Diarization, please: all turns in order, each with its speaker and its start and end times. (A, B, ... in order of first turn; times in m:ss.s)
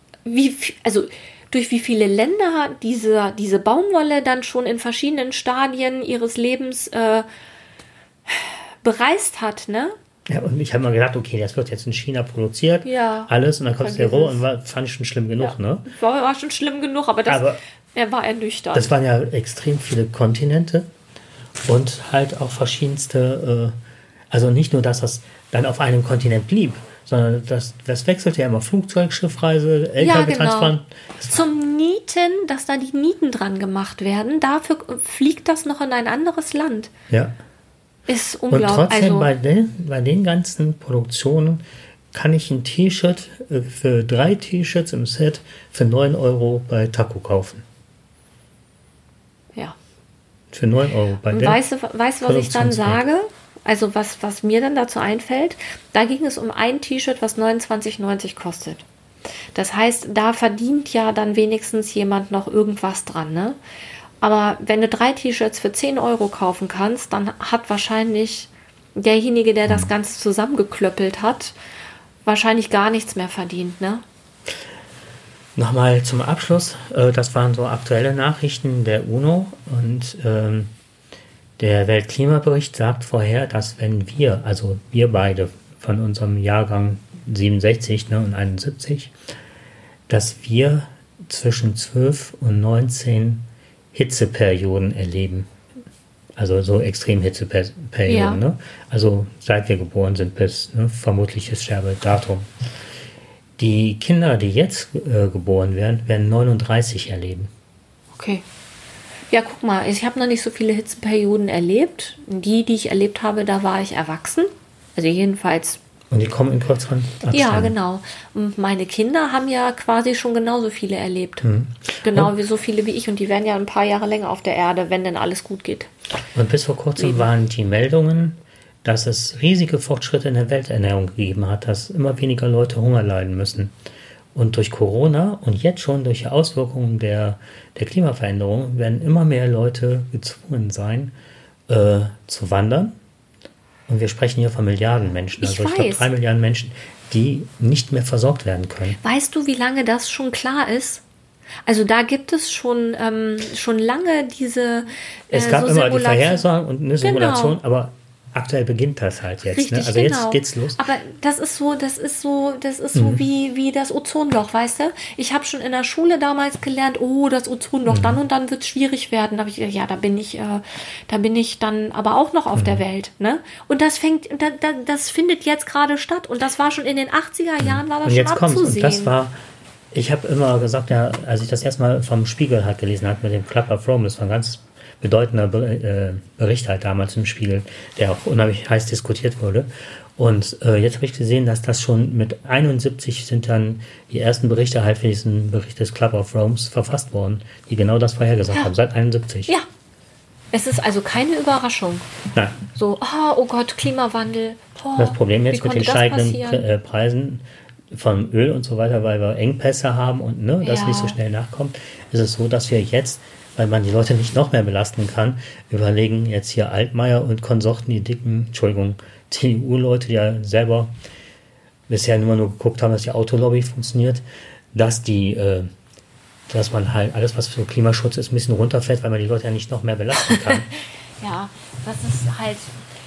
0:00.2-0:07.2 A
0:08.3-0:09.9 A
0:10.3-0:15.9 B
0:12.8-0:14.4 A
0:15.4-0:18.9 A
0:17.2-0:17.6 B
0:18.7-0:20.9 B
0:21.6-0:23.8 B
0:24.3-0:31.4 B
0:30.0-0:30.7 A
0:31.3-0:36.9 A
0:38.1-0:39.3 A
0:38.5-0:47.6 B
0:50.5-0:51.6 B
0:51.3-0:58.8 A
0:52.2-0:53.0 B
0:59.5-1:03.6 A
1:04.2-1:11.5 A
1:09.7-1:09.9 B
1:12.2-1:14.0 A
1:15.6-1:20.7 B
1:21.6-1:29.1 B
1:30.1-1:35.5 B
1:36.4-1:42.5 B
1:38.1-1:38.4 A
1:43.6-1:47.5 B
1:48.1-1:48.4 A
1:49.3-1:55.8 A
1:56.1-1:57.7 B
1:57.3-2:01.5 A
2:01.4-2:02.3 B
2:02.0-2:05.9 A
2:06.3-2:13.7 B
2:07.0-2:07.2 A
2:14.3-2:21.1 B
2:21.7-2:22.9 B
2:23.9-2:29.0 B
2:25.4-2:26.1 A
2:29.0-2:31.0 A
2:31.6-2:36.4 A
2:35.3-2:40.8 B
2:37.0-2:37.6 A
2:39.4-2:59.1 A
2:42.9-2:43.2 B
2:47.9-2:48.2 B
2:52.5-2:52.8 B
2:57.6-2:59.4 B
2:59.9-3:19.5 B
3:20.5-3:22.0 A
3:22.3-3:22.6 B
3:22.7-3:26.6 A
3:25.0-3:40.9 B
3:30.6-3:31.2 A
3:41.9-3:45.7 B
3:46.5-3:50.7 B
3:50.2-3:50.6 A
3:51.2-3:52.7 A